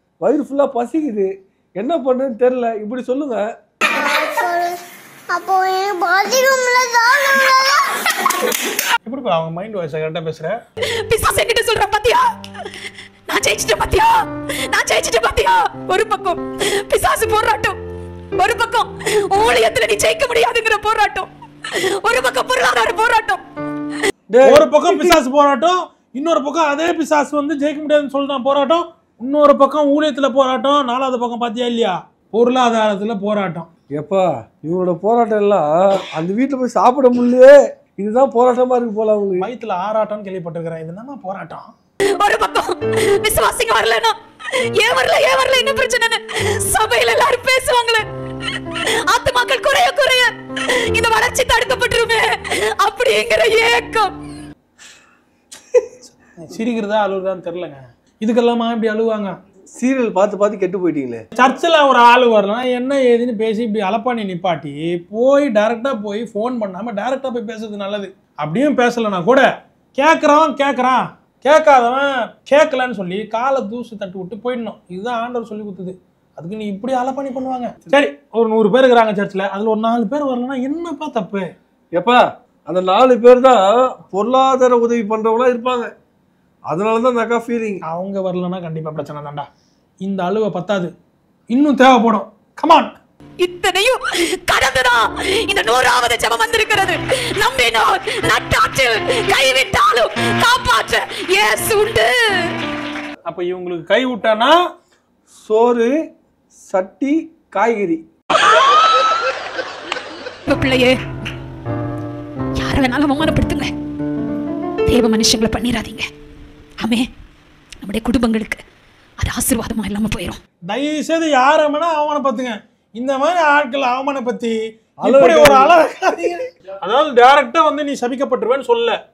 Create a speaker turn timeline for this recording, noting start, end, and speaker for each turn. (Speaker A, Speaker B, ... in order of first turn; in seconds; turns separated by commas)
Speaker A: 0.2-3.5, Speaker B: 4.1-4.7, Speaker B: 5.3-7.8, Speaker C: 9.1-10.6, Speaker D: 11.1-12.2, Speaker D: 13.3-17.8, Speaker D: 18.4-23.4, Speaker A: 24.3-25.2, Speaker C: 24.4-33.7, Speaker A: 33.9-39.5, Speaker C: 39.4-41.7, Speaker D: 42.2-48.0, Speaker D: 48.7-54.1, Speaker C: 56.1-59.3, Speaker A: 59.8-61.2, Speaker C: 61.3-69.4, Speaker C: 70.0-81.5, Speaker A: 81.9-85.9, Speaker A: 86.7-87.8, Speaker C: 87.9-89.5, Speaker C: 90.0-90.9, Speaker C: 91.5-92.9, Speaker D: 93.4-102.5, Speaker C: 103.2-104.5, Speaker A: 105.4-105.9, Speaker A: 106.7-108.0, Speaker D: 108.5-108.8, Speaker D: 110.5-110.9, Speaker D: 112.6-113.7, Speaker D: 114.8-116.0, Speaker D: 117.8-118.6, Speaker D: 119.2-120.4, Speaker C: 120.7-128.9, Speaker A: 125.0-125.8